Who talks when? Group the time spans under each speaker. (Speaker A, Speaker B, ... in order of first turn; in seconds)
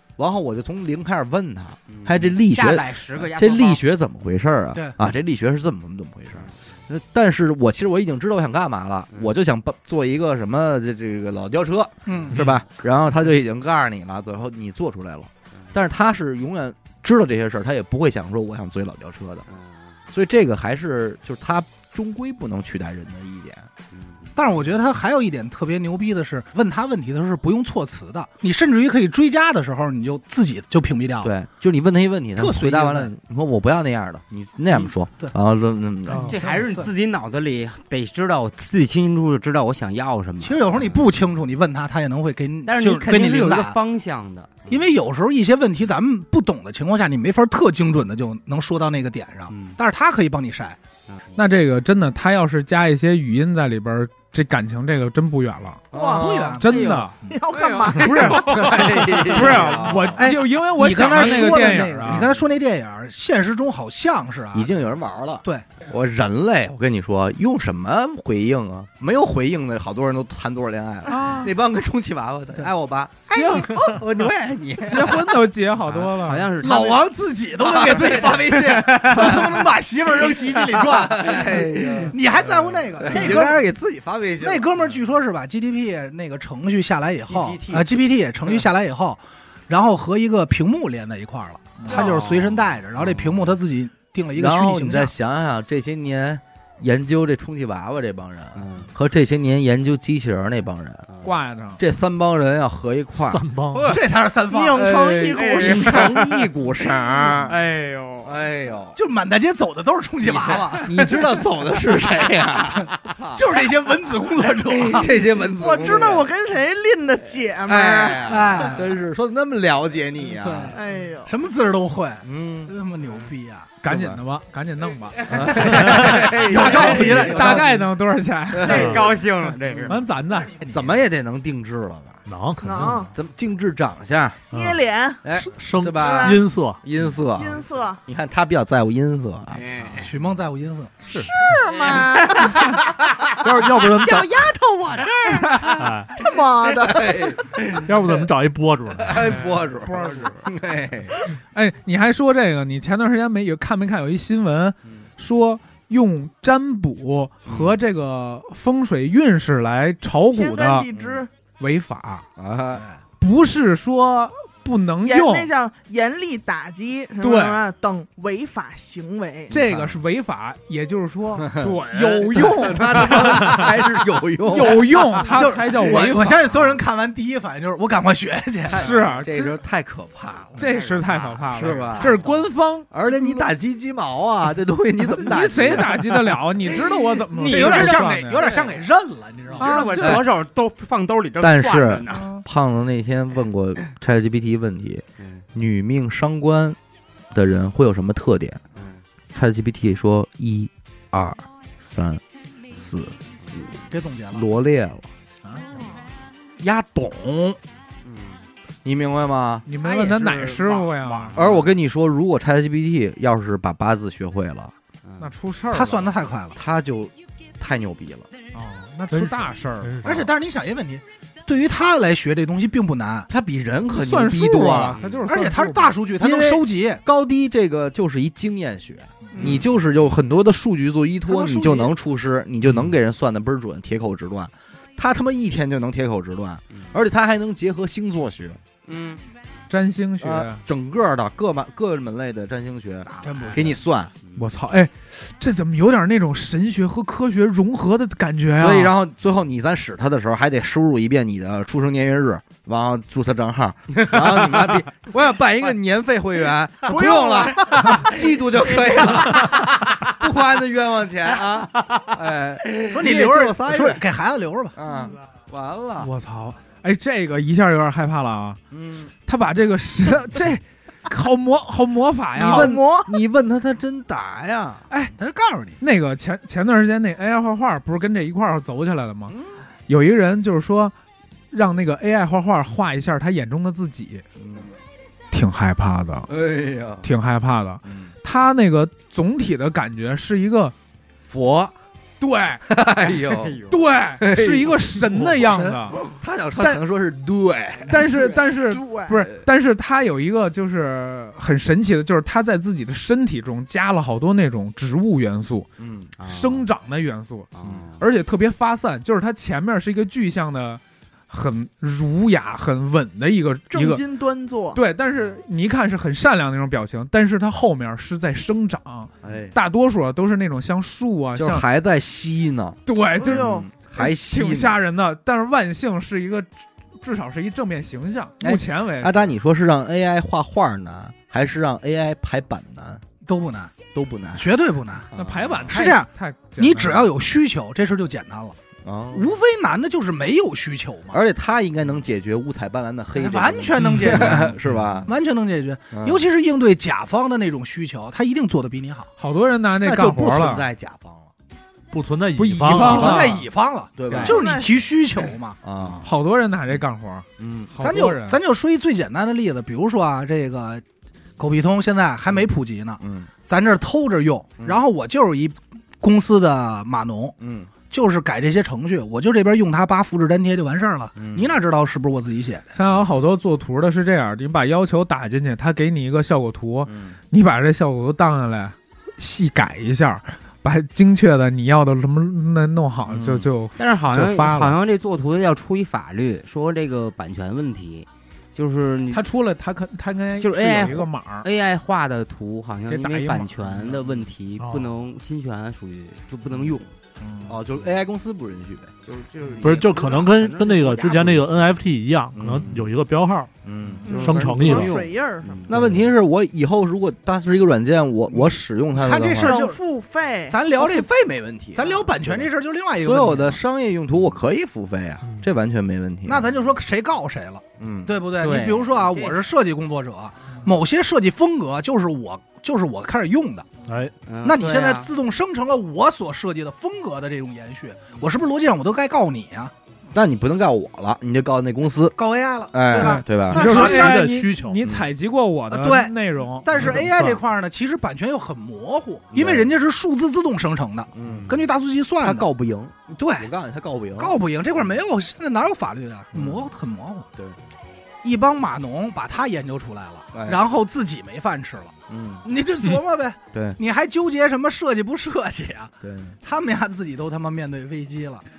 Speaker A: 0.2-19.5, 20.1-23.7, 31.2-36.3, 55.9-56.6, 58.3-60.2, 64.5-75.4, 77.6-79.7, 80.7-82.2, 83.0-84.7, 94.3-101.1, 101.8-103.4, 105.5-107.6, 108.2-109.0, 110.2-113.6, 114.7-116.3, 117.7-120.8, 122.2-122.7, 123.9-124.2, 125.3-127.7, 128.5-129.1, 130.7-132.2, 133.1-134.4, 135.2-139.6, 146.8-147.6, 149.0-151.1, 160.9-161.3, 162.4-162.8, 169.5-170.0, 171.4-171.8, 172.3-175.1, 178.7-180.7, 181.5-182.2, 182.9-186.1, 191.4-196.8, 197.3-198.6, 199.3-203.2, 204.3-205.1, 206.6-207.3, 208.8-209.7, 211.3-214.7, 216.6-218.3, 223.3-225.0, 226.2-238.6, 240.2-244.1, 248.6-264.0, 264.8-266.1, 268.7-269.1, 272.4-274.8, 279.3-279.5, 284.4-284.7, 286.3-287.1, 287.9-288.1, 291.2-291.7, 292.7-293.6, 294.2-298.1, 305.8-306.1, 319.2-319.6, 321.4-324.8, 328.4-333.0, 333.9-334.5, 335.1-335.8, 338.8-339.4, 341.1-345.1, 345.9-346.2, 349.8-351.3, 352.8-353.4, 354.0-354.4, 355.6-356.1, 357.4-357.7, 363.0-363.3, 367.4-367.7, 371.2-371.6, 376.9-377.1, 383.1-383.5, 397.5-398.9, 402.3-402.9, 403.6-405.0, 405.7-409.6, 410.8-412.4, 413.0-416.5, 417.8-418.2, 430.1-432.2, 432.7-434.1, 434.8-435.1, 439.3-439.7, 441.1-441.7, 442.2-444.4, 446.3-446.7, 450.3-450.6, 452.1-452.4, 453.5-453.8, 456.0-456.4
Speaker B: 1.9-3.8, 19.5-20.0, 23.9-24.3, 36.2-41.1, 42.6-44.9, 49.5-49.8, 56.6-60.0, 75.9-77.1, 77.9-79.6, 81.4-83.5, 87.3-88.0, 91.8-93.6, 98.5-98.9, 101.1-101.4, 103.7-104.0, 105.2-106.4, 107.4-108.3, 128.6-130.1, 139.5-140.1, 141.7-142.9, 143.9-145.7, 180.6-182.4, 186.8-188.8, 189.5-192.3, 195.2-195.4, 198.8-199.1, 208.0-208.4, 209.8-211.7, 215.1-215.3, 224.9-225.3, 238.9-239.2, 243.1-243.7, 244.2-244.5, 254.0-254.8, 256.9-259.9, 261.5-262.1, 293.1-293.9, 306.2-306.7, 307.6-308.0, 354.1-354.4, 383.8-389.2, 390.4-396.9, 399.1-401.8, 404.1-406.1, 418.4-419.4, 424.2-425.1
Speaker C: 12.1-12.4, 24.4-31.3, 32.4-33.1, 34.7-35.3, 36.1-36.9, 40.4-43.8, 44.7-50.8, 56.0-57.3, 60.1-64.7, 73.4-74.0, 76.6-83.6, 84.4-95.1, 103.9-104.9, 109.0-111.2, 113.3-115.1, 118.3-118.9, 120.3-123.7, 126.2-127.7, 130.6-130.9, 139.9-141.1, 175.3-178.9, 187.5-189.9, 203.9-204.5, 206.8-207.6, 215.7-216.6, 220.0-223.3, 225.3-227.0, 229.3-229.6, 231.3-231.9, 243.2-243.7, 262.9-264.8, 275.1-275.8, 295.5-295.8, 333.2-333.7, 334.4-335.1, 335.7-338.6, 339.1-341.2, 343.1-349.1, 352.7-355.6, 357.8-360.8, 361.4-372.7, 408.3-409.8, 410.5-411.1, 411.7-413.6, 416.3-423.7, 424.4-429.7, 432.2-434.3, 435.7-442.5, 443.1-443.5, 444.2-447.3, 448.2-455.9, 456.4-458.4
Speaker D: 51.4-55.8, 56.6-57.1, 57.9-62.3, 71.1-71.5, 73.3-73.8, 74.8-76.5, 101.2-101.8, 123.8-125.6, 126.5-129.0, 129.9-130.6, 145.3-145.7, 149.8-150.4, 151.5-160.9, 161.6-162.3, 163.2-165.5, 167.2-167.6, 169.5-173.6, 174.5-176.5, 178.7-179.5, 180.6-183.4, 185.2-188.5, 189.6-190.2, 209.7-211.4, 215.2-216.1, 218.5-220.0, 223.9-226.0, 239.7-240.6, 244.4-248.9, 266.0-268.6, 269.3-272.7, 275.8-279.4, 279.9-280.9, 281.5-284.2, 285.3-286.3, 287.0-290.7, 292.2-292.6, 293.7-296.0, 297.9-305.7, 306.2-314.0, 314.7-321.6, 322.9-326.5, 327.0-329.3, 335.1-337.1, 344.2-344.5, 349.2-350.6, 352.4-353.4, 356.0-358.4, 372.8-384.8, 389.1-391.5, 392.9-394.0, 397.2-397.6, 433.0-437.1
Speaker E: 55.9-56.4, 57.2-58.8, 104.5-106.2, 115.6-118.7, 120.7-121.3, 132.6-133.1, 134.5-135.2, 136.0-136.4, 137.4-138.0, 141.3-142.7, 146.2-147.3, 160.3-161.3, 165.0-169.5, 272.4-273.2, 298.6-299.2, 313.7-314.8, 323.2-323.7, 354.2-354.8, 404.1-405.7, 409.4-410.6
Speaker F: 103.2-104.0, 125.7-126.3, 128.7-129.1, 132.3-133.1, 134.5-134.8, 135.4-136.8, 141.1-141.3, 143.4-144.3, 145.7-146.1, 147.8-149.4, 219.1-220.3, 343.8-344.9, 351.9-353.2, 394.6-395.0, 399.6-403.5, 404.1-405.0, 423.9-424.1, 433.5-434.8, 436.8-437.2